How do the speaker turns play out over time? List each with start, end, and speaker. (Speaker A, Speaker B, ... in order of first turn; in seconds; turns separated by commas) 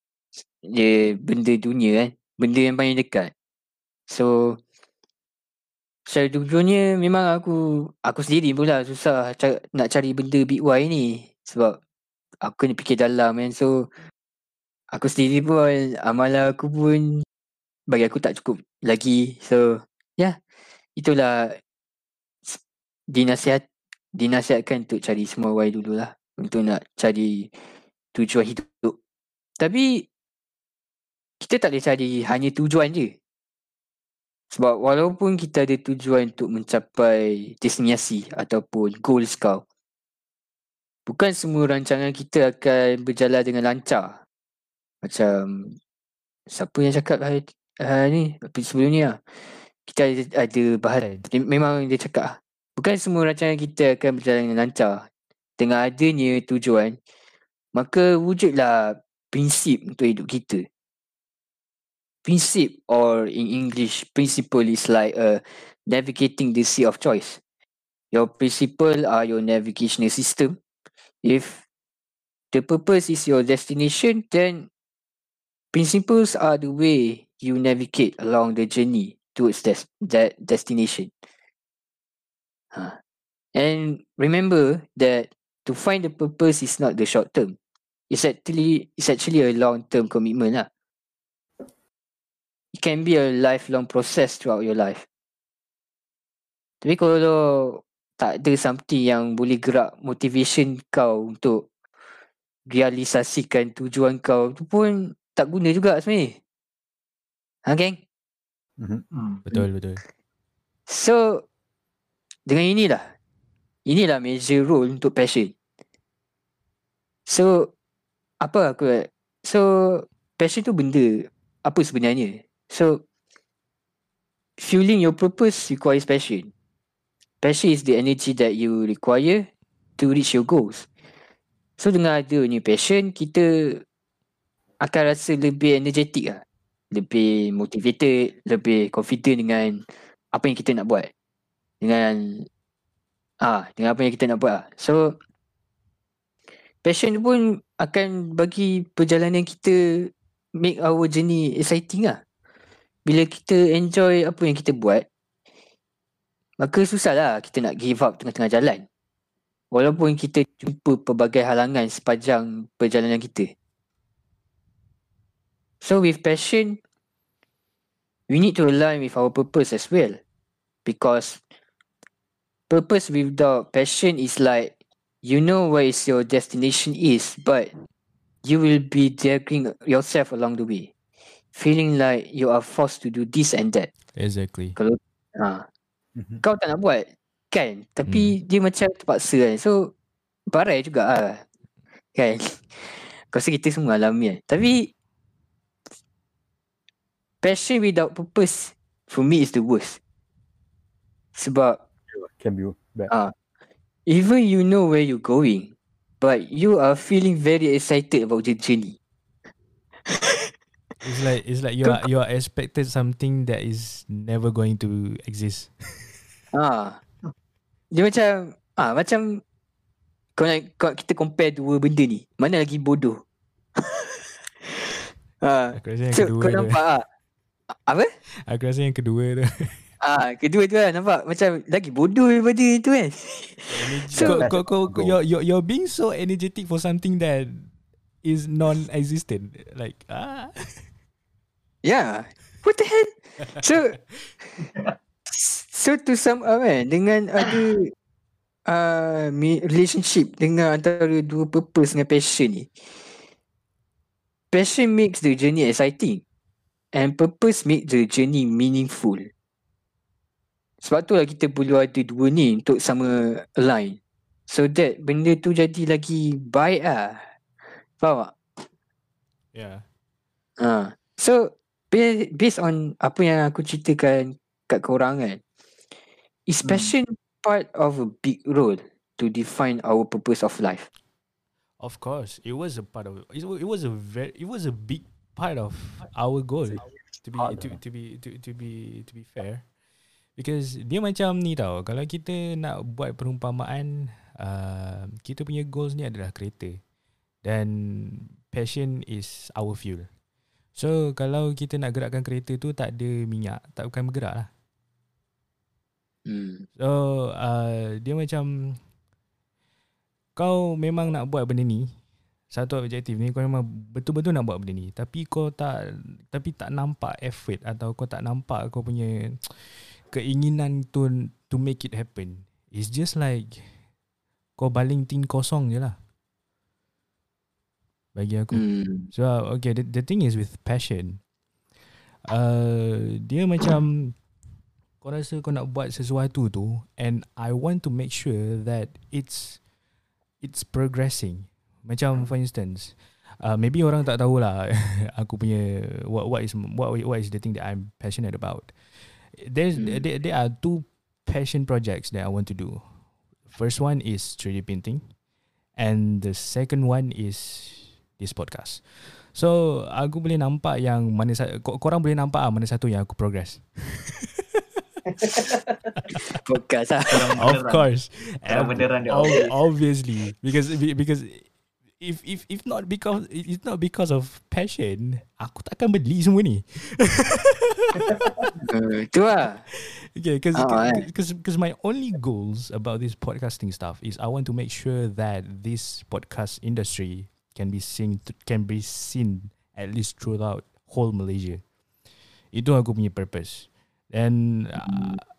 Speaker A: 0.4-3.3, Speaker A: 4.1-4.6, Speaker A: 6.1-11.8, Speaker A: 12.4-13.9, Speaker A: 14.9-17.2, Speaker A: 17.9-20.4, Speaker A: 21.0-21.6, Speaker A: 22.4-27.5, Speaker A: 28.1-28.9, Speaker A: 29.6-30.1, Speaker A: 31.4-33.1, Speaker A: 34.5-39.6, Speaker A: 41.1-44.2, Speaker A: 45.0-45.8, Speaker A: 46.5-49.2, Speaker A: 49.8-57.0, Speaker B: 51.0-51.3, Speaker A: 57.7-60.7, Speaker A: 62.2-67.4, Speaker A: 68.1-70.6, Speaker A: 71.2-71.6, Speaker A: 72.5-74.7, Speaker A: 75.7-81.1, Speaker A: 82.7-83.0, Speaker A: 83.5-87.5, Speaker A: 88.1-90.7, Speaker A: 92.7-95.0, Speaker A: 96.8-101.7, Speaker A: 102.7-106.4, Speaker A: 107.6-108.0, Speaker C: 108.8-109.0, Speaker D: 109.1-109.4, Speaker B: 109.5-110.0, Speaker A: 110.9-111.5, Speaker A: 112.5-113.1, Speaker A: 113.8-115.5, Speaker A: 117.3-117.7, Speaker A: 118.4-123.0, Speaker A: 124.6-126.5, Speaker A: 127.4-130.8, Speaker A: 131.8-133.8, Speaker A: 134.8-141.1, Speaker A: 141.8-142.5, Speaker A: 143.4-145.2, Speaker A: 146.8-152.2, Speaker A: 153.1-155.1, Speaker A: 156.6-158.8, Speaker A: 159.7-163.5, Speaker A: 165.8-166.8, Speaker A: 168.3-170.2, Speaker A: 170.8-171.4, Speaker A: 172.7-174.7, Speaker A: 175.2-177.8, Speaker A: 178.4-180.9, Speaker A: 181.5-183.9, Speaker B: 184.1-184.8, Speaker A: 184.8-185.7, Speaker C: 186.2-186.4, Speaker A: 186.4-189.9, Speaker B: 188.1-188.3, Speaker A: 190.5-191.4, Speaker A: 192.1-194.9, Speaker A: 197.4-200.0, Speaker A: 201.3-201.8, Speaker C: 202.1-203.1, Speaker A: 203.1-203.3, Speaker A: 204.1-209.0, Speaker A: 210.1-210.5, Speaker B: 211.0-216.1, Speaker A: 216.5-217.0, Speaker A: 217.9-219.4, Speaker A: 220.3-223.2, Speaker A: 223.8-227.1, Speaker B: 225.7-226.8, Speaker A: 227.7-228.1, Speaker B: 228.3-229.9, Speaker A: 230.0-234.5, Speaker B: 233.7-237.7, Speaker C: 234.2-235.2, Speaker B: 238.2-240.9, Speaker A: 241.8-244.0, Speaker D: 244.6-244.9, Speaker A: 245.3-247.9, Speaker A: 248.7-252.7, Speaker A: 254.5-256.2, Speaker A: 256.9-259.3, Speaker A: 260.8-267.3, Speaker A: 268.0-268.4, Speaker B: 269.5-269.8, Speaker A: 270.6-275.4, Speaker A: 276.5-280.9, Speaker B: 281.8-289.6, Speaker C: 287.4-287.8, Speaker B: 290.4-296.8, Speaker B: 297.4-300.1, Speaker B: 300.7-304.5, Speaker A: 306.2-306.6, Speaker B: 306.8-308.8, Speaker B: 310.4-311.9, Speaker B: 312.5-323.8, Speaker B: 324.6-326.0, Speaker B: 328.1-331.2, Speaker A: 328.5-329.1, Speaker B: 332.2-334.2, Speaker B: 335.0-339.6, Speaker B: 340.4-352.8, Speaker A: 349.8-350.0, Speaker B: 353.5-355.1, Speaker B: 355.8-364.6, Speaker D: 365.2-365.6, Speaker A: 366.3-367.4, Speaker D: 367.1-367.9, Speaker B: 367.4-378.2, Speaker D: 368.4-369.5, Speaker D: 378.1-378.4, Speaker A: 378.7-379.6, Speaker B: 379.7-391.6, Speaker A: 380.5-381.1, Speaker B: 392.5-395.2, Speaker A: 394.8-395.2